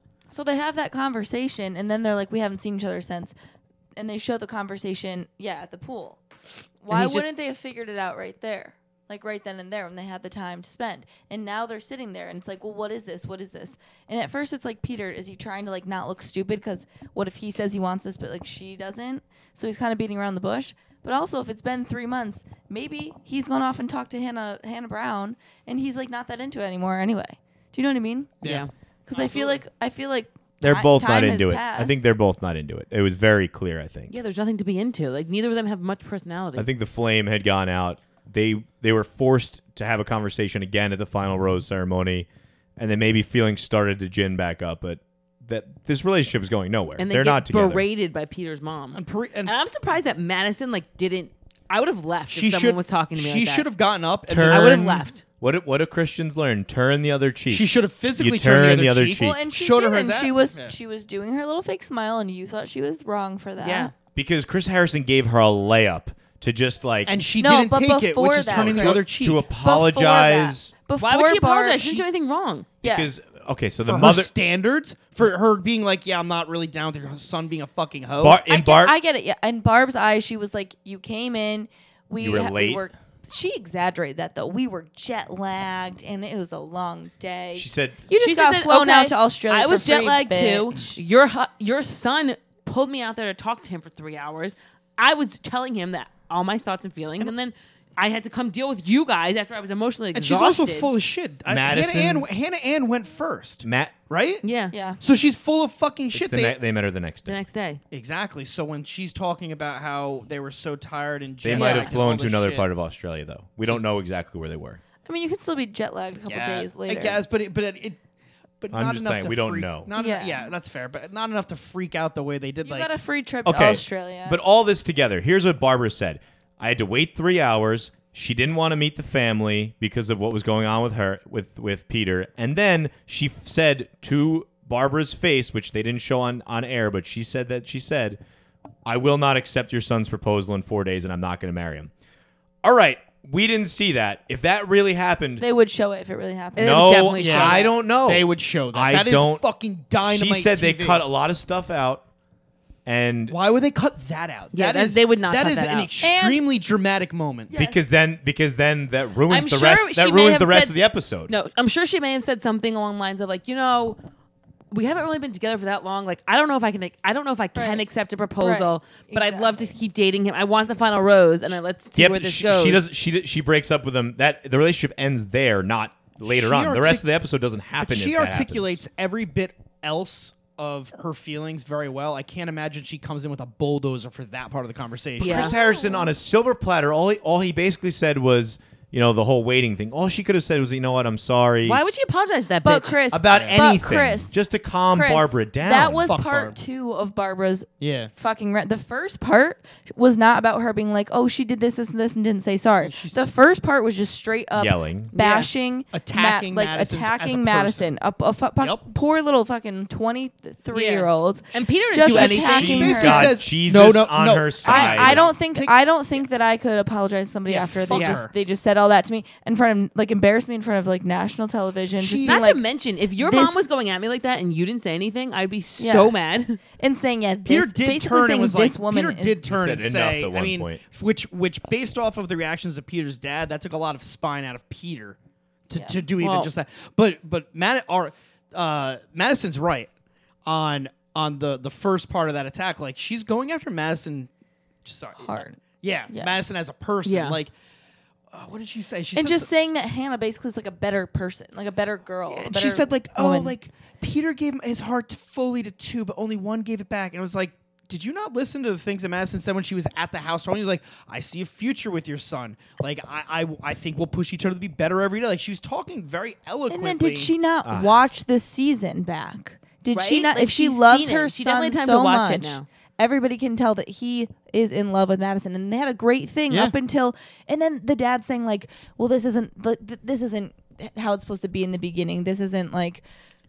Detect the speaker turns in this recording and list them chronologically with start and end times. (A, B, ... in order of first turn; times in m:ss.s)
0:00.3-0:03.3 A
0:04.0-0:06.2 A
0:06.8-0:28.3 A
0:06.9-0:07.3 B
0:28.4-0:28.6 C
0:28.4-0:29.6 B
0:29.1-0:32.0 A
0:30.6-0:34.1 D
0:34.1-0:36.7 B
0:36.6-0:47.8 D
0:47.0-0:53.7 B
0:48.9-0:49.5 C
0:52.3-0:55.1 C
0:54.3-0:54.8 D
0:54.5-0:55.2 B
0:55.4-0:59.4 D
0:57.5-1:00.7 C
0:59.2-1:03.9 A
1:03.6-1:03.9 B
1:04.1-1:07.2 D
1:07.0-1:09.5 C
1:07.4-1:12.0 A
1:08.5-1:10.7 D
1:11.0-1:12.7 B
1:12.8-1:13.1 A
1:12.8-1:14.3 D
1:13.8-1:18.4 C
1:18.2-1:19.0 D
1:18.4-1:31.0 A
1:22.2-1:22.8 D
1:27.5-1:28.0 D
1:28.1-1:40.9 B
1:40.1-1:44.4 C
1:41.5-1:42.3 D
1:43.6-1:43.9 D
1:44.4-1:44.7 B
1:44.7-1:45.0 A
1:45.0-1:46.6 C
1:46.1-1:47.4 D
1:47.3-1:47.8 B
1:47.9-1:52.7 C
1:51.4-1:54.8 D
1:51.5-1:51.9 A
1:55.0-1:57.2 A
1:56.2-1:58.0 C
1:58.6-2:02.9 C
1:58.7-1:59.9 D
1:59.9-2:00.5 A
2:02.6-2:04.4 A
2:03.4-2:18.2 D
2:18.8-2:21.9 D
2:22.6-2:25.4 D
2:25.4-2:27.0 A
2:26.6-2:27.7 B
2:26.6-2:29.4 D
2:27.2-2:31.0 C
2:30.0-2:32.0 D
2:32.8-2:33.4 D
2:33.3-2:37.5 C
2:34.5-2:35.9 B
2:36.0-2:36.4 A
2:37.5-2:37.8 A
2:37.5-2:41.3 D
2:39.3-2:44.0 B
2:44.7-2:52.8 B
2:47.6-2:47.8 A
2:48.4-2:49.7 A
2:52.0-2:58.8 D
2:56.2-2:57.1 C
2:57.8-3:05.5 C
3:05.2-3:11.8 D
3:05.2-3:05.5 B
3:05.2-3:06.1 A
3:11.6-3:13.0 B
3:12.6-3:14.3 A
3:13.1-3:16.1 D
3:13.3-3:13.8 C
3:14.9-3:33.4 A
3:16.1-3:16.6 C
3:17.8-3:18.1 C
3:22.8-3:23.2 C
3:24.6-3:25.1 D
3:25.1-3:25.5 B
3:25.9-3:27.9 C
3:28.6-3:28.8 C
3:30.7-3:33.2 B
3:32.1-3:36.2 C
3:32.1-3:35.3 D
3:34.6-3:42.6 A
3:37.5-3:38.3 C
3:37.5-3:38.2 B
3:42.0-3:42.4 C
3:42.2-3:46.6 B
3:43.2-3:43.6 A
3:45.8-3:46.1 A
3:46.8-3:49.4 A
3:47.4-3:55.2 C
3:49.4-3:50.8 D
3:55.7-3:59.9 C
3:56.2-3:56.5 B
4:00.4-4:04.3 C
4:04.8-4:07.5 C
4:05.2-4:05.6 A
4:06.1-4:06.4 A
4:07.0-4:07.4 B
4:08.3-4:09.6 C
4:09.1-4:13.5 A
4:12.3-4:27.3 C
4:26.7-4:43.0 A
4:27.6-4:27.9 D
4:29.9-4:32.6 B
4:36.5-4:36.8 C